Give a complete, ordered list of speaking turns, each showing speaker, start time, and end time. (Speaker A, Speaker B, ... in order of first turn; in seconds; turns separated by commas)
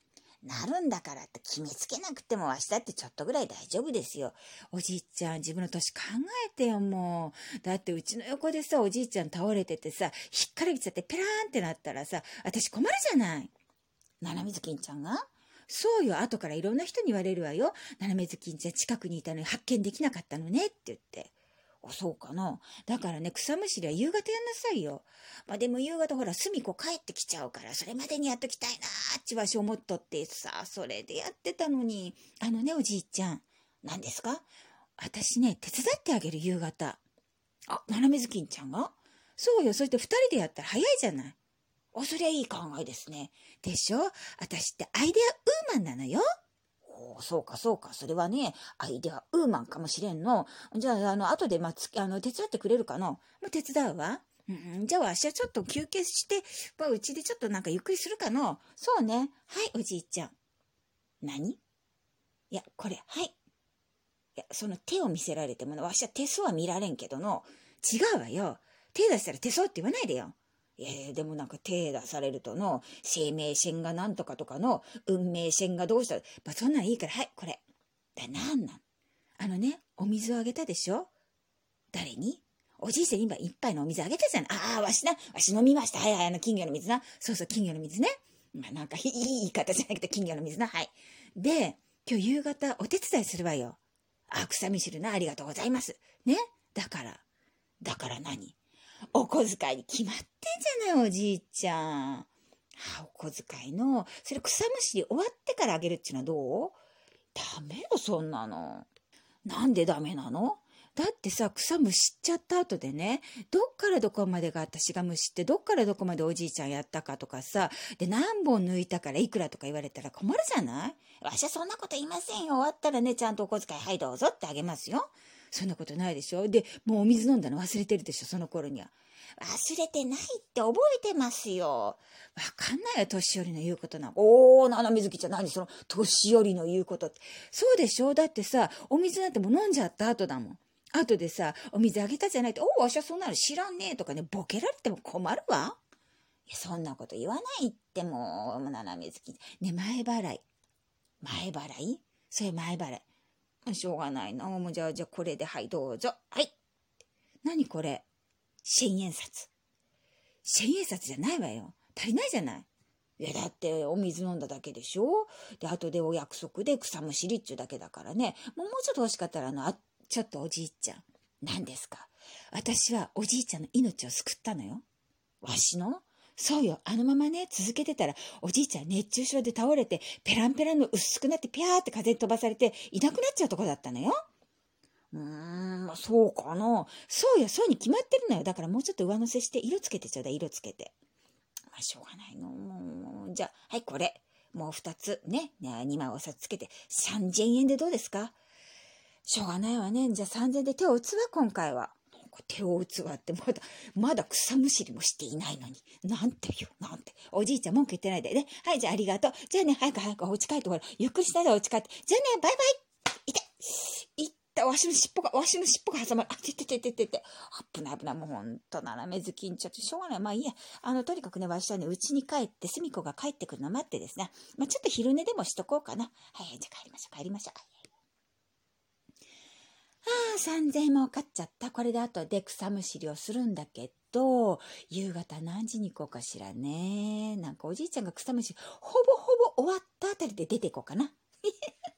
Speaker A: 0.4-13.5, Speaker A: 14.2-21.3, Speaker A: 21.8-34.5, Speaker A: 35.0-37.0, Speaker A: 37.7-41.4, Speaker A: 41.9-46.2, Speaker A: 46.9-60.3, Speaker A: 61.2-61.6, Speaker A: 62.5-63.4, Speaker A: 64.4-77.6, Speaker A: 78.2-78.8, Speaker A: 79.4-81.1, Speaker A: 81.9-93.8, Speaker A: 94.3-97.2, Speaker A: 97.8-98.6, Speaker A: 99.1-106.8, Speaker A: 107.3-108.9, Speaker A: 109.5-145.8, Speaker A: 146.5-150.4, Speaker A: 151.2-153.1, Speaker A: 153.7-156.6, Speaker A: 157.4-158.1, Speaker A: 158.6-159.5, Speaker A: 160.4-162.7, Speaker A: 163.2-174.8, Speaker A: 175.4-184.2, Speaker A: 185.1-190.9, Speaker A: 191.7-198.4, Speaker A: 199.3-212.7, Speaker A: 213.3-227.7, Speaker A: 230.0-241.7